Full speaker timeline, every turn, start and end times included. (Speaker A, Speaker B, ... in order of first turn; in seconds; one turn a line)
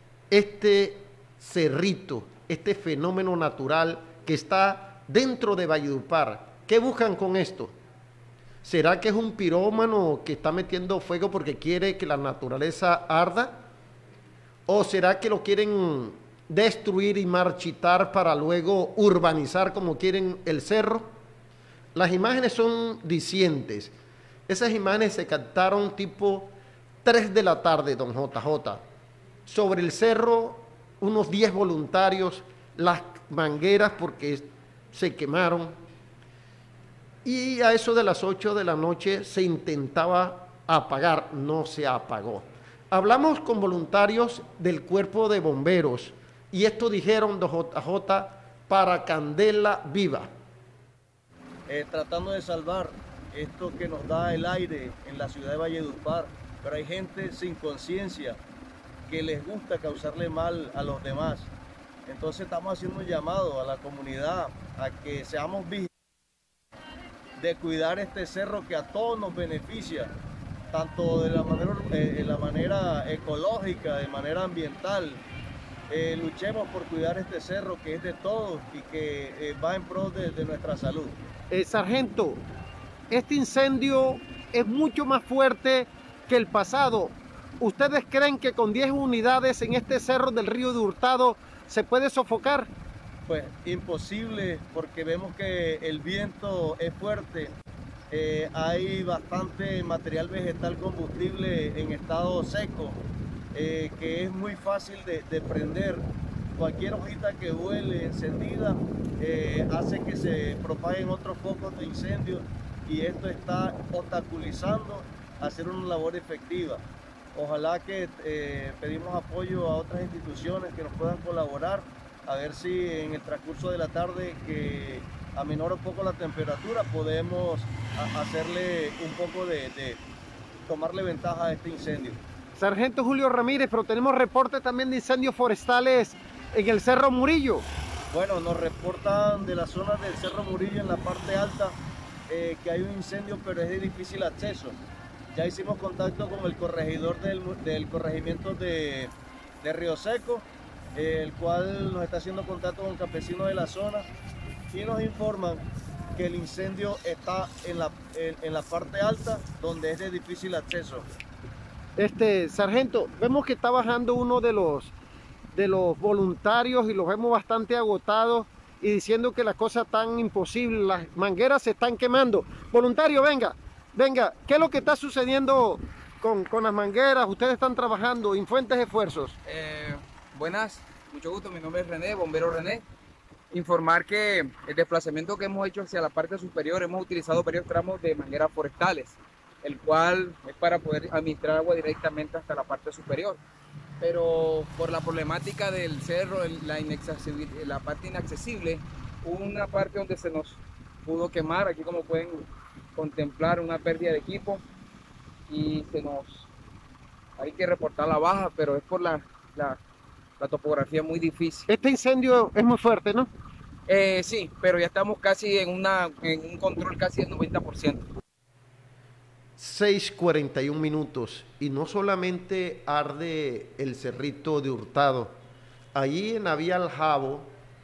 Speaker A: 0.3-7.7
Speaker A: 8.6-13.6
Speaker A: 14.7-21.1
Speaker A: 21.9-23.9
Speaker A: 24.5-26.5
Speaker A: 27.0-28.8
Speaker A: 29.4-35.7
Speaker A: 37.2-50.3
Speaker B: 51.7-58.4
Speaker B: 59.1-61.5
Speaker B: 62.1-65.9
Speaker B: 67.4-70.1
Speaker B: 70.7-75.2
Speaker B: 75.9-81.2
Speaker A: 81.5-82.4
Speaker A: 83.1-92.7
Speaker B: 93.3-97.5
Speaker B: 98.1-103.0
Speaker B: 103.5-106.0
Speaker B: 106.6-116.8
Speaker B: 117.3-130.0
Speaker B: 130.7-132.2
Speaker A: 132.6-137.7
Speaker B: 138.1-141.7
Speaker B: 142.3-144.8
Speaker B: 145.3-154.0
Speaker B: 154.7-161.1
Speaker A: 162.0-164.9
Speaker A: 165.5-179.4
Speaker C: 179.4-182.8
Speaker C: 183.5-193.4
Speaker C: 194.0-204.6
Speaker C: 205.5-206.5
Speaker C: 207.4-209.8
Speaker C: 210.4-211.7
Speaker A: 211.7-213.3
Speaker C: 213.9-218.1
Speaker A: 219.6-225.3
Speaker A: 225.9-227.5